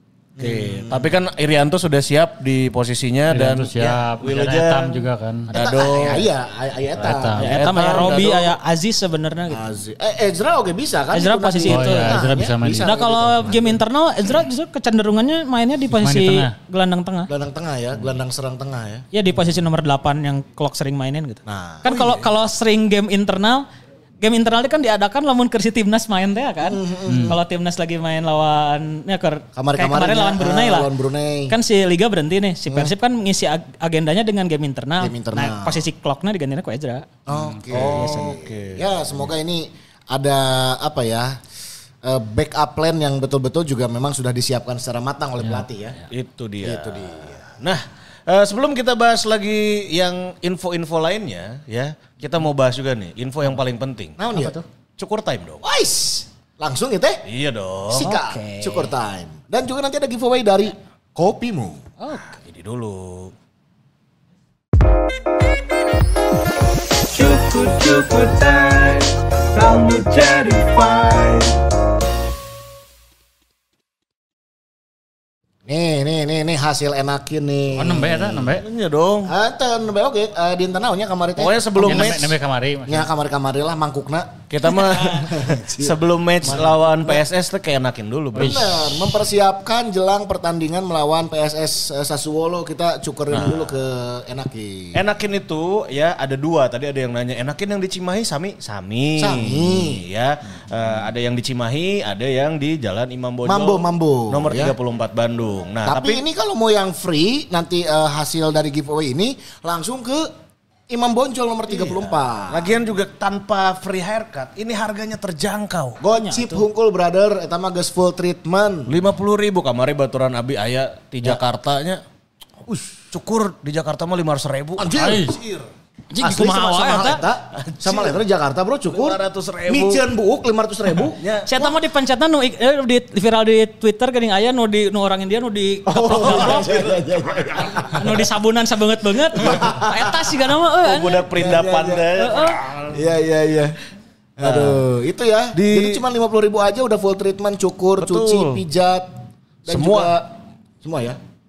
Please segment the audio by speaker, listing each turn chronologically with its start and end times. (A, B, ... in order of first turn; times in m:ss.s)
0:00.4-0:01.1 A
0:00.4-0:06.3 B
0:03.3-0:05.5 C
0:05.5-0:08.2 A
0:07.0-0:07.7 C
0:07.4-0:09.6 D
0:07.4-0:08.6 B
0:09.5-0:13.8 A
0:11.1-0:17.3 D
0:11.7-0:12.9 C
0:15.9-0:16.5 C
0:17.3-0:19.0 A
0:19.1-0:23.6 D
0:21.4-0:22.3 A
0:24.2-0:30.9 D
0:26.6-0:27.4 A
0:27.1-0:27.3 C
0:29.6-0:31.6 A
0:31.5-0:37.1 D
0:32.7-0:32.9 A
0:35.0-0:35.8 A
0:37.3-0:41.4 A
0:37.3-0:37.6 C
0:37.7-0:38.4 D
0:37.7-0:38.9 B
0:42.0-0:46.0 A
0:46.1-0:54.2 B
0:46.6-0:47.5 A
0:54.2-0:54.6 A
0:55.0-0:55.6 B
0:55.6-0:57.2 A
0:57.2-0:58.1 B
0:57.9-1:01.8 A
0:58.0-0:58.9 D
1:02.0-1:02.3 D
1:02.3-1:03.3 B
1:07.1-1:11.5 E
1:09.7-1:11.1 B
1:15.6-1:18.4 A
1:17.7-1:18.6 C
1:18.5-1:19.3 B
1:19.2-1:22.3 A
1:21.4-1:22.3 B
1:21.8-1:23.1 C
1:22.9-1:27.2 A
1:24.5-1:28.7 B
1:28.3-1:28.9 C
1:28.3-1:35.0 A
1:33.3-1:33.7 B
1:34.9-1:46.2 B
1:39.2-1:40.0 A
1:43.4-1:44.7 A
1:45.8-1:50.3 A
1:50.9-1:52.7 A
1:51.7-1:56.0 B
1:56.0-1:59.0 A
1:56.1-1:56.6 D
1:58.9-2:02.0 B
2:02.7-2:02.9 A
2:03.1-2:05.2 B
2:04.8-2:05.5 A
2:04.9-2:05.4 C
2:06.1-2:07.2 D
2:06.2-2:11.8 A
2:07.6-2:08.2 B
2:08.9-2:10.0 B
2:11.2-2:11.5 B
2:11.4-2:16.8 D
2:15.8-2:18.3 A
2:16.1-2:17.7 B
2:18.0-2:21.3 D
2:19.3-2:20.2 A
2:20.8-2:23.0 B
2:21.3-2:22.2 A
2:22.2-2:22.6 D
2:22.9-2:23.8 A
2:24.4-2:29.1 A
2:24.4-2:24.8 B
2:25.5-2:26.0 B
2:28.0-2:28.6 B
2:29.6-2:31.2 A
2:29.7-2:30.1 B